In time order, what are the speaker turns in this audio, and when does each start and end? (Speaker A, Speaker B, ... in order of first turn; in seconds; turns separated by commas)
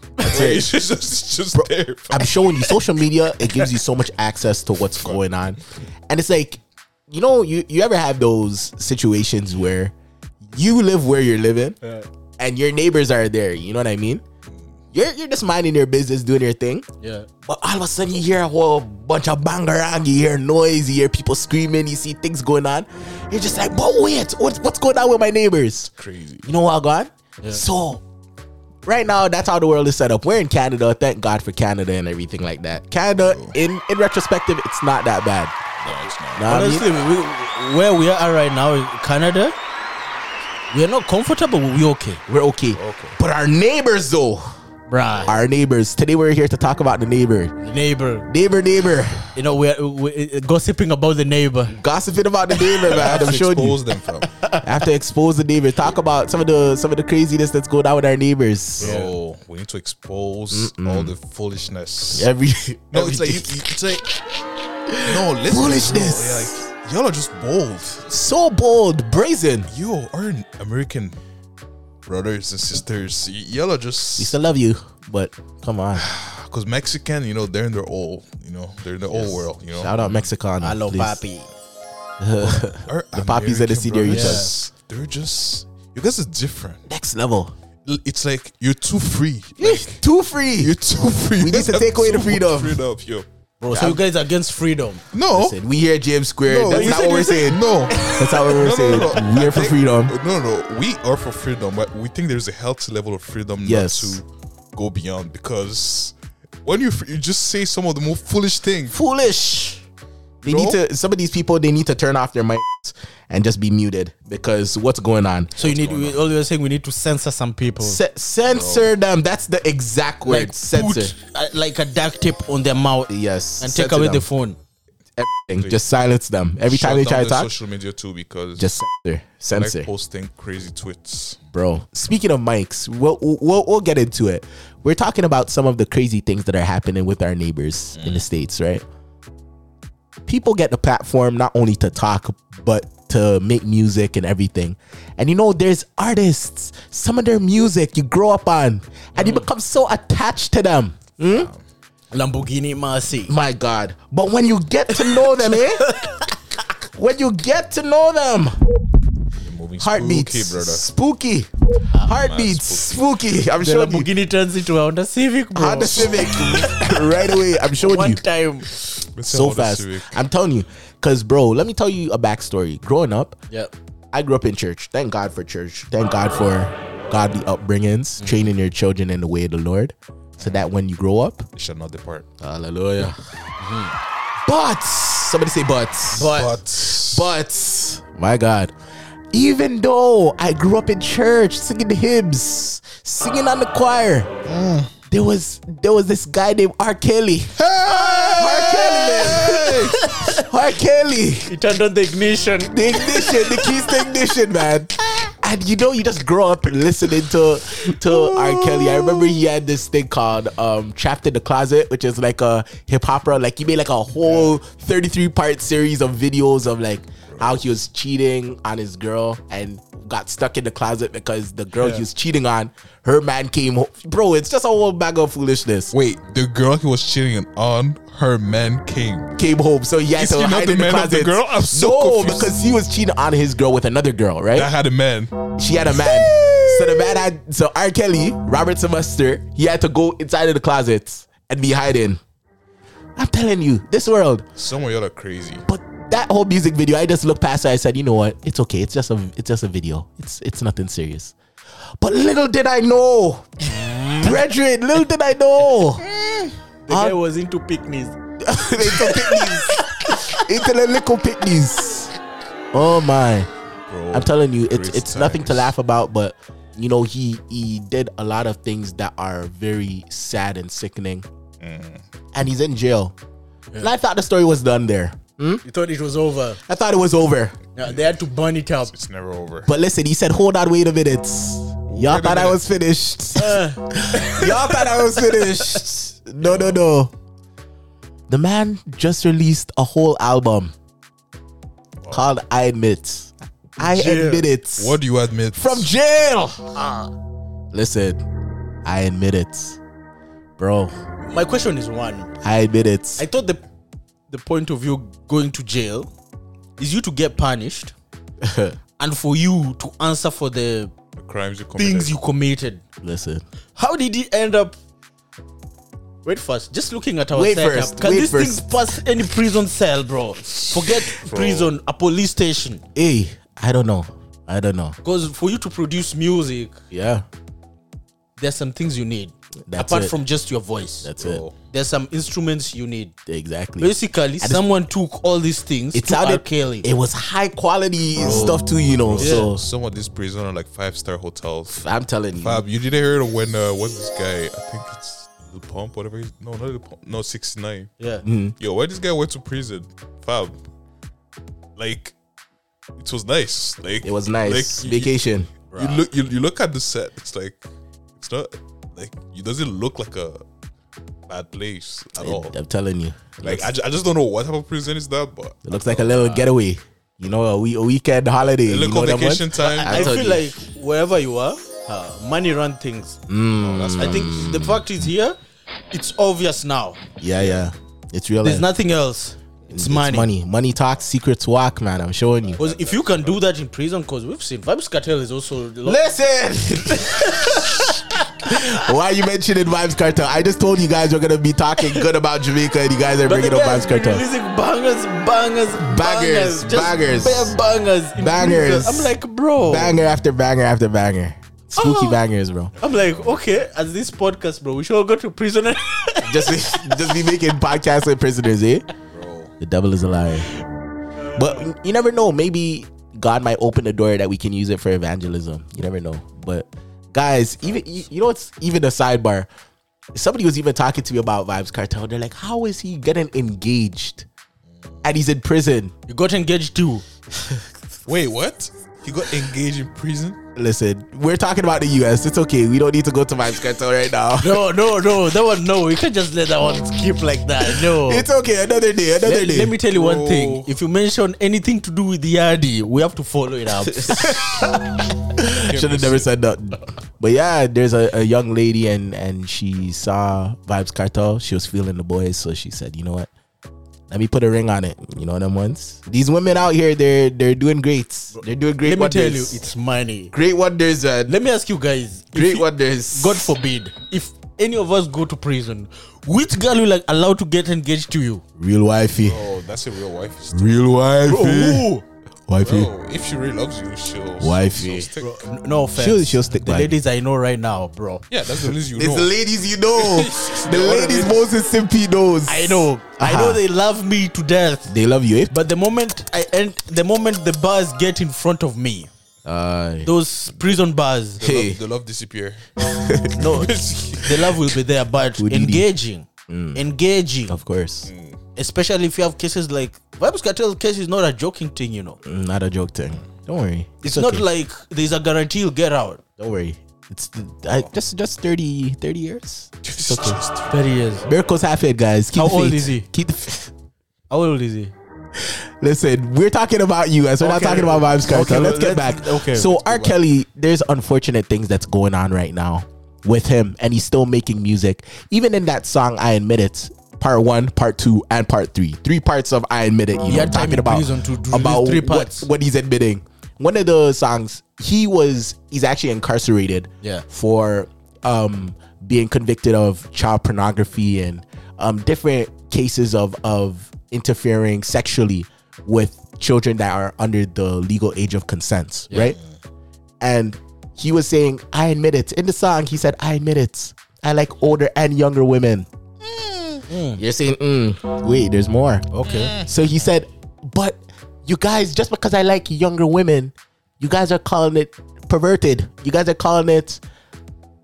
Speaker A: 0.2-0.5, Speaker B: 0.2-2.3, Speaker C: 0.2-0.7, Speaker C: 1.5-9.9, Speaker B: 5.0-5.2, Speaker C: 10.5-11.8, Speaker C: 12.4-14.2, Speaker C: 14.9-16.9, Speaker A: 17.0-17.3, Speaker C: 17.4-25.9, Speaker B: 25.9-26.5, Speaker C: 26.4-28.0, Speaker C: 28.8-35.5, Speaker B: 33.2-33.6, Speaker B: 35.8-36.5, Speaker C: 36.3-36.9, Speaker A: 36.5-39.5, Speaker A: 40.7-42.2, Speaker C: 42.3-44.5, Speaker B: 42.7-43.2, Speaker A: 44.9-45.4, Speaker C: 45.2-47.5, Speaker A: 47.6-48.3, Speaker C: 48.3-49.3, Speaker A: 49.3-51.8, Speaker C: 51.7-53.8, Speaker B: 52.8-54.3, Speaker A: 54.2-54.6, Speaker C: 54.6-58.9, Speaker B: 58.8-62.3, Speaker A: 58.8-59.1, Speaker C: 60.5-61.1, Speaker C: 62.1-63.7, Speaker B: 62.9-64.1, Speaker C: 64.9-66.6, Speaker B: 65.0-68.1, Speaker C: 68.1-69.7, Speaker B: 69.7-71.2, Speaker B: 72.0-74.4, Speaker C: 74.2-76.0, Speaker B: 75.9-80.3, Speaker C: 79.2-81.2, Speaker A: 80.6-81.5, Speaker C: 82.2-84.5, Speaker B: 82.4-86.8, Speaker A: 84.1-84.5, Speaker C: 86.9-87.5, Speaker B: 87.8-90.0, Speaker C: 89.6-90.7, Speaker B: 90.6-93.2, Speaker C: 91.4-92.8, Speaker A: 93.6-95.0, Speaker C: 93.7-94.0, Speaker B: 95.1-95.6, Speaker C: 95.3-100.1, Speaker B: 96.5-109.0, Speaker A: 96.7-98.4, Speaker C: 103.6-104.2, Speaker C: 108.9-109.8, Speaker C: 110.4-115.5, Speaker B: 110.4-110.8, Speaker B: 115.5-116.2, Speaker A: 115.6-118.0, Speaker C: 117.8-121.1, Speaker B: 118.5-118.9, Speaker A: 120.2-124.6, Speaker C: 123.1-124.2, Speaker C: 125.2-127.5, Speaker B: 125.5-125.8, Speaker B: 126.7-128.7, Speaker C: 128.6-129.9, Speaker B: 129.5-131.4, Speaker C: 131.5-138.8, Speaker B: 137.9-138.2, Speaker C: 140.2-151.5, Speaker A: 149.2-149.4, Speaker B: 151.2-151.6, Speaker A: 152.1-153.3, Speaker C: 153.3-155.8, Speaker A: 155.4-156.3, Speaker C: 156.8-158.6, Speaker B: 159.4-160.9, Speaker C: 159.8-161.5, Speaker C: 162.0-164.1, Speaker B: 162.1-163.0, Speaker A: 163.6-167.0, Speaker C: 165.5-168.2, Speaker A: 167.8-168.7, Speaker B: 169.1-170.2, Speaker C: 169.2-173.4, Speaker C: 174.1-181.5, Speaker B: 181.6-182.3, Speaker C: 182.4-183.2, Speaker A: 183.6-183.9, Speaker C: 184.4-186.4, Speaker A: 186.1-186.6, Speaker B: 186.2-187.4, Speaker C: 187.0-188.7, Speaker C: 189.3-194.3, Speaker B: 194.4-194.9, Speaker C: 195.1-201.5, Speaker B: 197.6-200.0, Speaker A: 200.1-200.4, Speaker A: 201.4-203.7, Speaker C: 202.6-225.9, Speaker B: 207.8-209.4, Speaker B: 225.9-229.3, Speaker C: 229.3-234.7, Speaker B: 230.1-232.5, Speaker B: 234.5-237.3, Speaker C: 235.6-242.2, Speaker C: 243.2-244.4, Speaker B: 244.6-245.6, Speaker C: 245.7-251.3, Speaker C: 252.0-253.7, Speaker A: 253.7-254.3, Speaker C: 254.2-256.0, Speaker B: 256.1-256.5, Speaker A: 256.9-258.2, Speaker C: 256.9-257.2, Speaker C: 258.4-262.1, Speaker A: 258.7-260.4, Speaker C: 262.7-263.5, Speaker B: 263.9-265.7, Speaker C: 264.1-271.2, Speaker B: 271.6-272.0, Speaker C: 272.3-273.1, Speaker C: 273.8-275.6, Speaker A: 275.6-276.6, Speaker C: 276.6-277.6, Speaker A: 277.8-278.9, Speaker B: 278.9-279.7, Speaker C: 279.6-287.1, Speaker B: 281.9-282.6, Speaker A: 283.4-285.8, Speaker B: 286.4-286.8, Speaker C: 288.3-290.7, Speaker C: 292.1-295.0, Speaker A: 293.8-294.5, Speaker B: 294.8-295.9, Speaker C: 295.5-296.7, Speaker A: 296.8-297.1, Speaker C: 297.7-298.2, Speaker C: 298.8-299.8, Speaker C: 300.6-300.9, Speaker A: 301.2-302.3, Speaker C: 302.4-303.2, Speaker A: 303.2-303.6, Speaker A: 304.3-306.1, Speaker A: 306.8-307.9, Speaker C: 308.4-308.8, Speaker A: 309.0-310.9, Speaker B: 311.2-312.1, Speaker A: 311.8-312.8, Speaker C: 313.0-313.4, Speaker A: 313.8-314.8, Speaker A: 316.2-322.8, Speaker C: 317.3-318.7, Speaker B: 321.1-321.7, Speaker C: 322.9-324.9, Speaker A: 325.0-326.8, Speaker C: 326.9-327.3, Speaker A: 328.4-331.1, Speaker C: 329.7-330.1, Speaker C: 331.0-331.4, Speaker B: 331.2-331.6, Speaker A: 331.7-333.1, Speaker C: 333.3-334.6, Speaker A: 333.8-336.9, Speaker C: 335.9-339.6, Speaker A: 338.2-338.6, Speaker B: 338.3-341.8, Speaker A: 339.2-339.5, Speaker C: 341.7-342.6, Speaker B: 342.4-347.9, Speaker A: 348.0-348.2, Speaker C: 348.2-348.6, Speaker B: 348.6-350.6, Speaker B: 351.8-352.1, Speaker B: 353.0-355.1, Speaker C: 354.0-355.5, Speaker A: 355.7-356.0, Speaker B: 355.7-357.6, Speaker B: 358.2-360.4, Speaker B: 361.3-362.6, Speaker C: 362.2-363.7, Speaker B: 363.4-366.5, Speaker C: 365.6-370.4, Speaker B: 368.6-370.2, Speaker A: 369.7-373.2, Speaker C: 373.3-374.8, Speaker B: 373.6-374.5, Speaker A: 373.9-375.4, Speaker A: 375.9-377.0, Speaker C: 377.2-378.7, Speaker B: 377.4-377.7, Speaker A: 378.4-380.3, Speaker C: 379.7-382.6, Speaker B: 382.4-383.4, Speaker A: 382.6-386.0, Speaker C: 385.8-394.2, Speaker A: 387.3-387.7, Speaker A: 391.8-392.0, Speaker A: 393.2-400.0, Speaker C: 395.8-397.6, Speaker C: 398.2-402.7, Speaker A: 401.8-402.2, Speaker A: 402.8-406.9, Speaker C: 406.2-408.9, Speaker B: 409.1-409.5, Speaker C: 409.6-410.5, Speaker C: 411.3-419.5, Speaker C: 420.1-424.2, Speaker C: 425.0-425.9, Speaker A: 426.1-427.0, Speaker B: 428.1-430.4, Speaker C: 430.5-434.7, Speaker A: 434.4-438.3, Speaker C: 437.6-439.8, Speaker A: 439.2-444.4, Speaker B: 439.9-440.8, Speaker C: 443.9-453.3, Speaker B: 445.5-446.3, Speaker C: 454.1-459.6, Speaker A: 458.8-460.3, Speaker C: 460.3-461.3, Speaker A: 461.3-468.4, Speaker C: 462.3-463.5, Speaker C: 468.6-469.4, Speaker B: 469.2-470.8, Speaker C: 470.5-471.9, Speaker A: 471.2-472.0, Speaker C: 472.5-472.9, Speaker B: 472.6-475.4, Speaker C: 474.4-475.1, Speaker A: 475.2-478.2, Speaker C: 475.9-477.0, Speaker B: 478.3-479.4, Speaker C: 478.6-483.6, Speaker B: 479.9-481.5, Speaker A: 482.5-484.9, Speaker C: 484.9-485.5, Speaker A: 485.5-489.1, Speaker C: 489.4-490.1, Speaker A: 490.0-491.4, Speaker B: 491.4-492.7, Speaker C: 491.4-491.8, Speaker C: 492.8-493.6, Speaker A: 493.4-497.6, Speaker B: 493.4-494.6, Speaker C: 495.4-495.9, Speaker C: 496.5-496.8, Speaker C: 497.5-498.1, Speaker B: 498.1-498.4, Speaker A: 498.6-502.2, Speaker C: 502.2-504.4, Speaker A: 504.0-506.2, Speaker C: 506.4-510.4, Speaker B: 509.8-510.9, Speaker A: 510.7-511.3, Speaker C: 511.2-513.7, Speaker A: 512.3-513.1, Speaker A: 514.3-514.9, Speaker C: 515.4-549.4, Speaker A: 517.4-520.1, Speaker A: 530.3-532.5, Speaker C: 550.2-555.9, Speaker B: 556.2-556.8, Speaker A: 556.9-557.2, Speaker C: 557.2-567.0, Speaker A: 559.1-559.5, Speaker B: 559.2-559.7